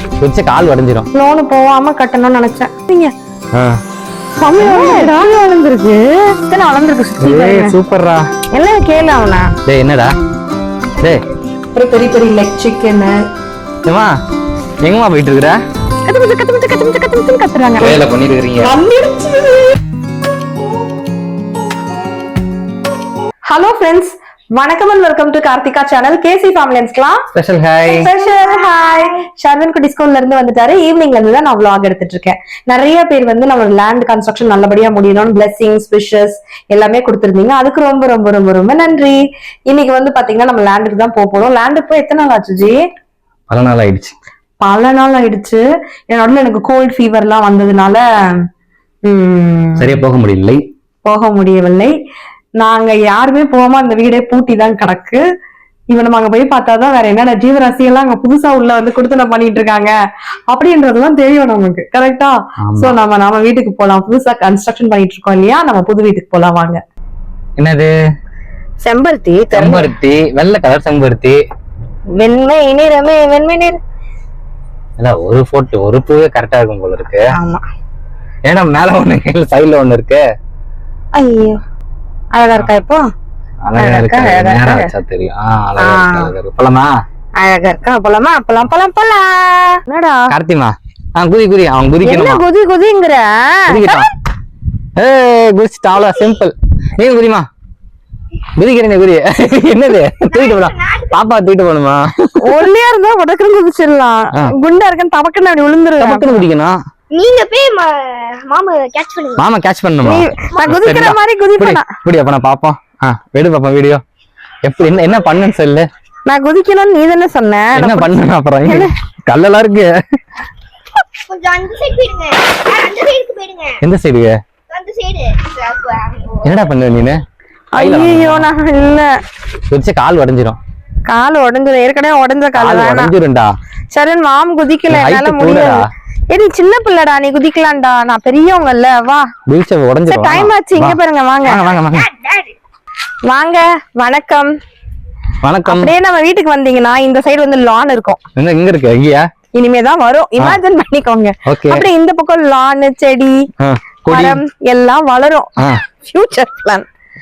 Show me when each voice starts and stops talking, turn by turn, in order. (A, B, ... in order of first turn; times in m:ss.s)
0:00.2-0:01.1 A
0:01.1-0:03.1 B
0:04.4-0:07.8 B
0:04.6-0:04.9 A
0:07.2-0:08.3 A
0:08.5-0:09.5 B
0:09.7-0:10.1 A
0:11.8-0:13.2 B
0:13.8-0:14.1 A
0:14.8-0:15.6 A
0:16.0-0:18.0 B
0:17.8-0:18.8 A
0:18.6-0:19.8 B
0:23.5-0:27.2 B
0:27.4-0:28.1 A
0:27.8-0:42.8 B
0:43.5-0:44.1 A
0:44.6-0:48.0 B
0:49.1-0:50.0 B
0:49.8-0:50.6 A
0:51.0-0:51.9 B
0:52.6-0:55.2 B
0:55.9-0:59.9 B
1:00.5-1:06.8 B
1:02.6-1:03.0 A
1:07.6-1:07.9 A
1:08.8-1:09.9 B
1:09.5-1:11.4 A
1:12.2-1:13.8 B
1:15.0-1:17.2 A
1:17.3-1:17.6 B
1:18.5-1:20.2 A
1:21.2-1:21.6 B
1:22.3-1:23.0 B
1:23.6-1:26.9 A
1:23.8-1:24.9 B
1:25.8-1:26.3 B
1:27.4-1:30.3 B
1:30.3-1:32.4 A
1:32.0-1:34.1 B
1:33.7-1:34.1 A
1:35.0-1:37.5 A
1:38.6-1:42.6 A
1:40.3-1:41.1 C
1:42.4-1:46.4 B
1:46.0-1:46.8 A
1:47.1-1:49.4 C
1:49.4-1:54.0 A
1:50.0-1:51.9 B
1:54.6-1:55.9 A
1:56.3-1:58.9 B
1:57.8-1:59.9 A
2:01.3-2:03.8 C
2:03.8-2:04.4 A
2:04.7-2:06.7 C
2:06.4-2:07.2 A
2:07.7-2:09.1 B
2:07.8-2:08.5 A
2:09.7-2:10.6 A
2:11.1-2:13.1 B
2:12.6-2:13.5 A
2:13.9-2:19.3 B
2:14.9-2:15.8 A
2:19.5-2:22.1 A
2:20.1-2:21.7 B
2:21.8-2:22.5 C
2:23.3-2:24.5 B
2:25.4-2:25.9 A
2:25.7-2:28.2 B
2:28.4-2:29.2 A
2:29.6-2:33.5 B
2:31.5-2:31.8 A
2:33.6-2:34.4 A
2:34.1-2:35.5 B
2:36.0-2:36.9 B